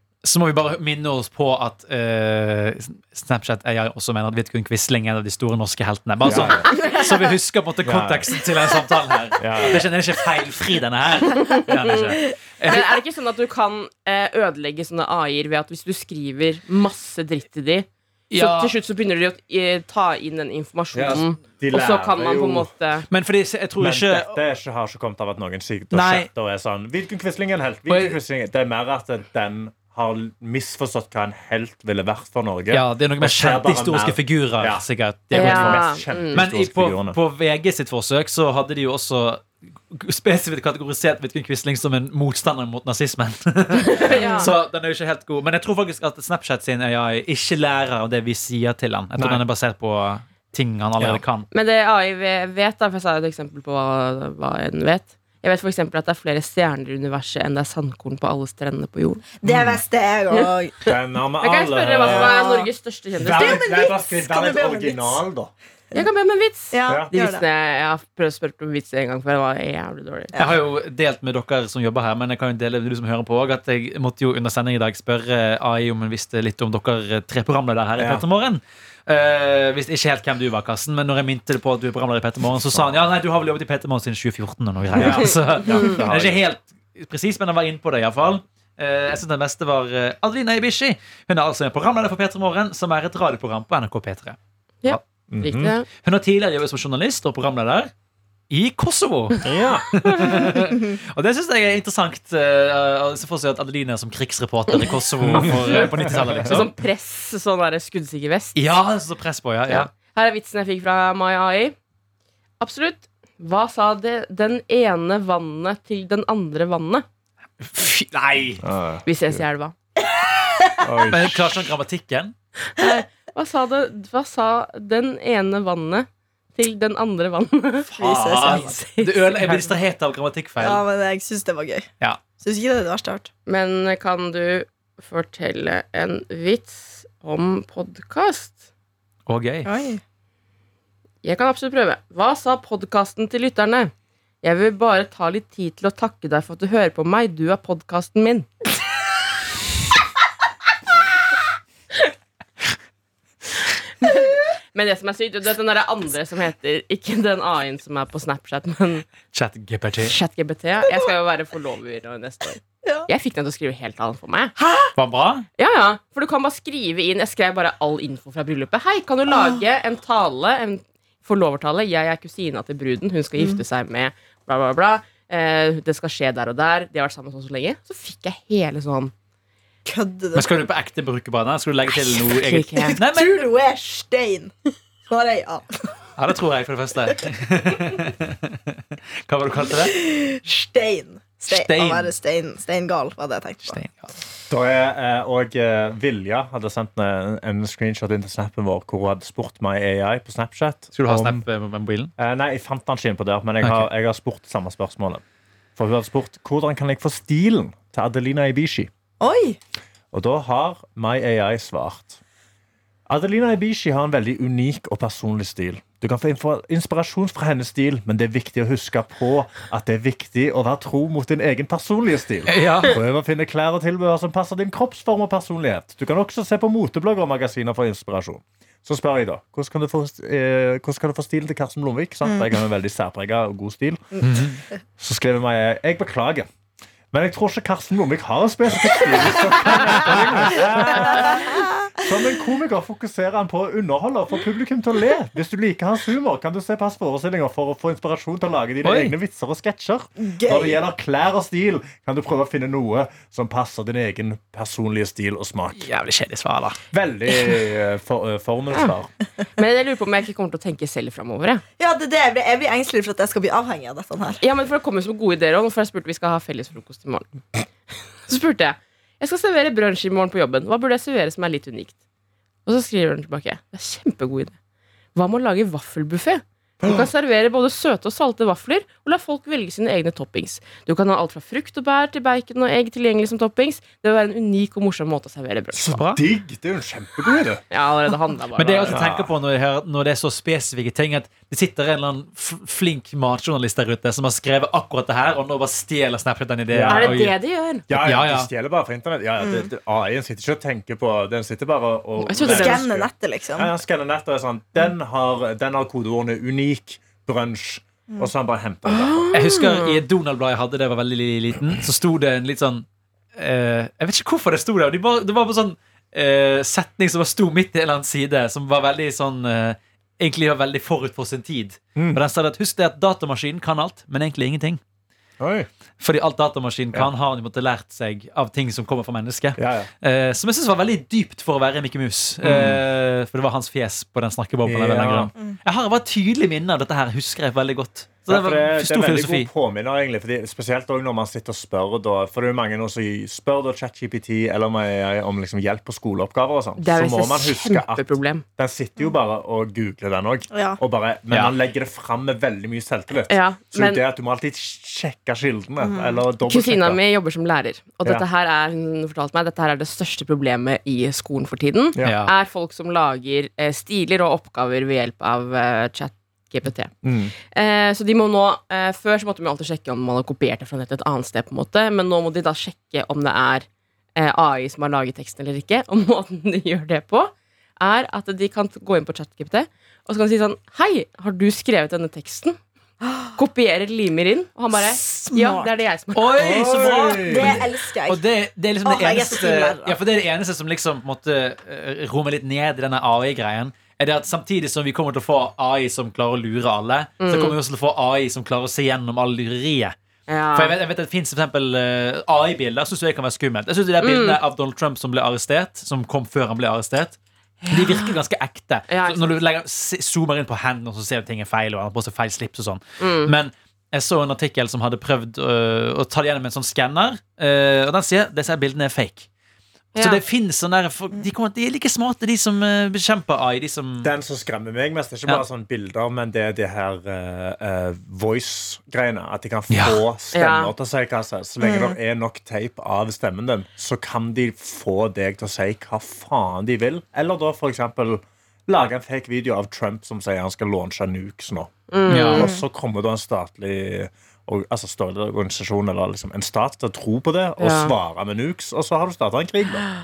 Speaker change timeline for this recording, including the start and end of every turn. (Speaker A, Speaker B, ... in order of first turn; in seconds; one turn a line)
Speaker A: 0.2-12.9
Speaker B: 6.2-6.7
Speaker C: 6.7-7.3
Speaker B: 7.8-8.3
Speaker B: 9.4-9.8
Speaker D: 11.6-12.0
Speaker D: 12.7-23.1
Speaker A: 18.3-18.7
Speaker B: 20.9-22.7
Speaker A: 23.1-24.4
Speaker B: 23.8-37.2
Speaker A: 25.9-26.3
Speaker A: 27.9-28.2
Speaker A: 32.7-51.5
Speaker D: 35.3-36.4
Speaker D: 43.8-44.5
Speaker C: 44.1-44.5
Speaker B: 49.2-49.4
Speaker D: 51.5-59.2
Speaker C: 59.4-60.8
Speaker B: 59.4-59.8
Speaker B: 60.9-62.4
Speaker D: 61.4-63.6
Speaker C: 62.0-62.7
Speaker B: 63.2-65.5
Speaker C: 63.2-65.2
Speaker D: 65.9-70.3
Speaker C: 66.7-67.4
Speaker A: 70.4-95.0
Speaker B: 78.0-78.2
Speaker B: 82.7-82.9
Speaker B: 84.9-86.4
Speaker D: 94.8-95.9
Speaker B: 95.3-95.7
Speaker A: 96.0-97.9
Speaker A: 98.5-106.7
Speaker B: 99.4-100.5
Speaker D: 100.0-100.4
Speaker B: 105.2-106.5
Speaker D: 105.4-108.6
Speaker A: 108.5-109.9
Speaker D: 109.7-111.8
Speaker D: 112.6-117.0
Speaker A: 117.6-118.6
Speaker B: 118.6-119.4
Speaker D: 119.0-119.7
Speaker C: 120.4-120.8
Speaker B: 120.8-121.5
Speaker A: 121.1-122.3
Speaker D: 122.7-129.6
Speaker A: 127.9-130.8
Speaker C: 128.0-128.8
Speaker C: 130.6-131.9
Speaker C: 132.4-133.3
Speaker D: 133.4-138.6
Speaker A: 139.3-139.7
Speaker C: 139.6-140.0
Speaker D: 141.2-148.5
Speaker D: 154.0-159.1
Speaker A: 159.3-160.1
Speaker D: 160.0-164.5
Speaker C: 162.8-163.1
Speaker C: 164.6-164.9
Speaker A: 164.9-165.5
Speaker D: 165.6-179.1
Speaker C: 169.3-169.6
Speaker C: 173.4-173.6
Speaker C: 179.8-180.5
Speaker A: 180.3-183.5
Speaker D: 182.3-183.0
Speaker C: 182.8-184.5
Speaker C: 185.1-185.8
Speaker A: 186.2-190.0
Speaker C: 189.7-193.8
Speaker A: 191.5-192.1
Speaker A: 193.7-194.1
Speaker B: 194.5-201.4
Speaker A: 200.9-202.1
Speaker B: 202.2-205.2
Speaker A: 203.6-203.9
Speaker B: 205.8-208.9
Speaker C: 209.2-209.6
Speaker B: 210.1-212.2
Speaker B: 213.1-236.4
Speaker A: 222.5-222.9
Speaker A: 234.2-234.6
Speaker B: 237.1-255.9
Speaker A: 239.7-241.0
Speaker C: 240.8-241.7
Speaker A: 248.8-249.1
Speaker C: 250.2-250.8
Speaker A: 255.8-256.8
Speaker B: 256.9-259.1
Speaker D: 259.6-261.6
Speaker C: 261.8-264.4
Speaker D: 264.4-267.4
Speaker D: 268.3-271.9
Speaker D: 272.6-274.5
Speaker D: 275.1-285.9
Speaker B: 276.8-277.1
Speaker B: 285.7-287.6
Speaker A: 285.9-286.2
Speaker D: 287.7-289.0
Speaker A: 288.6-297.3
Speaker B: 288.9-289.3
Speaker B: 296.7-297.3
Speaker D: 296.9-297.8
Speaker B: 297.9-309.3
Speaker A: 297.9-298.5
Speaker C: 299.4-299.7
Speaker D: 302.2-302.8
Speaker C: 302.4-303.7
Speaker D: 308.9-310.0
Speaker A: 309.3-312.8
Speaker A: 313.4-324.8
Speaker B: 325.4-325.7
Speaker A: 326.0-339.5
Speaker B: 329.6-329.9
Speaker B: 332.4-332.8
Speaker B: 334.6-335.3
Speaker B: 338.3-357.0
Speaker D: 346.8-348.4
Speaker C: 350.5-350.8
Speaker D: 353.3-354.0
Speaker C: 355.8-356.2
Speaker D: 356.4-366.9
Speaker A: 362.0-362.3
Speaker B: 367.0-367.3
Speaker D: 367.4-382.6
Speaker C: 383.1-383.3
Speaker D: 383.3-386.6
Speaker C: 384.9-385.7
Speaker A: 386.1-399.9
Speaker B: 386.4-387.6
Speaker C: 387.3-388.2
Speaker C: 388.8-389.9
Speaker D: 397.2-397.6
Speaker D: 400.3-400.8
Speaker A: 400.5-407.2
Speaker D: 404.0-404.4
Speaker D: 407.6-408.1
Speaker A: 407.7-419.3
Speaker D: 408.9-409.4
Speaker D: 413.0-413.3
Speaker D: 419.9-420.2
Speaker A: 419.9-424.1
Speaker B: 424.0-441.7
Speaker A: 429.7-430.0
Speaker D: 430.3-430.7
Speaker C: 431.6-431.9
Speaker D: 441.9-442.5
Speaker A: 442.1-442.4
Speaker B: 442.2-449.8
Speaker C: 442.3-442.6
Speaker D: 447.6-447.9